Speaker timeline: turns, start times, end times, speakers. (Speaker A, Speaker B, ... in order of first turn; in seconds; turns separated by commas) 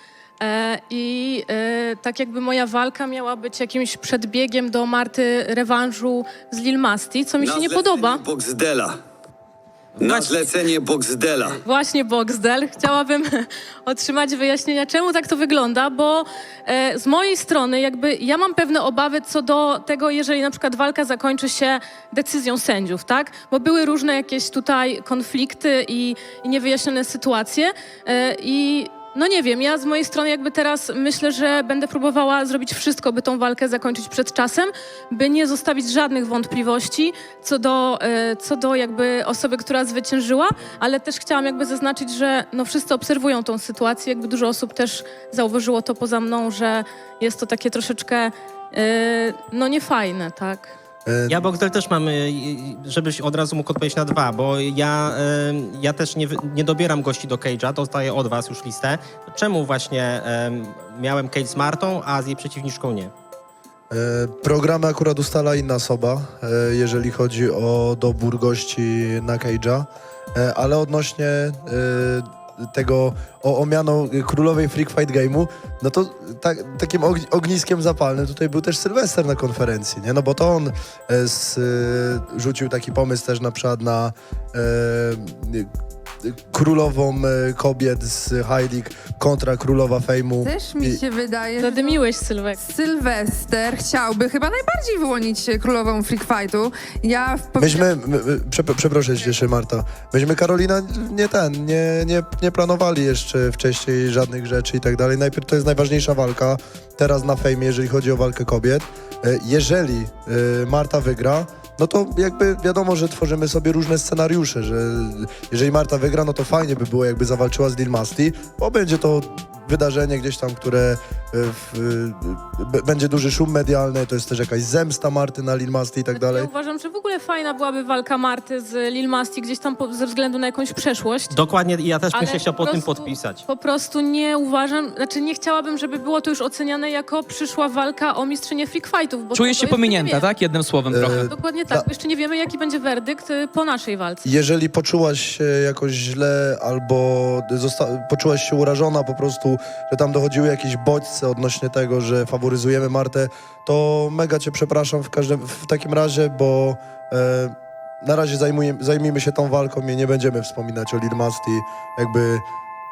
Speaker A: 0.4-8.2, Speaker B: 7.4-9.0, Speaker B: 10.0-11.6, Speaker A: 11.6-50.7, Speaker C: 51.0-51.4, Speaker D: 51.3-63.1, Speaker C: 63.9-85.7, Speaker C: 86.2-91.0, Speaker E: 90.4-92.0, Speaker A: 91.6-92.6, Speaker E: 92.6-97.9, Speaker C: 97.6-126.5, Speaker A: 126.1-131.4, Speaker D: 131.3-133.4, Speaker A: 132.1-140.3, Speaker F: 139.3-141.3, Speaker C: 140.9-141.9, Speaker A: 141.0-144.3, Speaker C: 144.2-162.4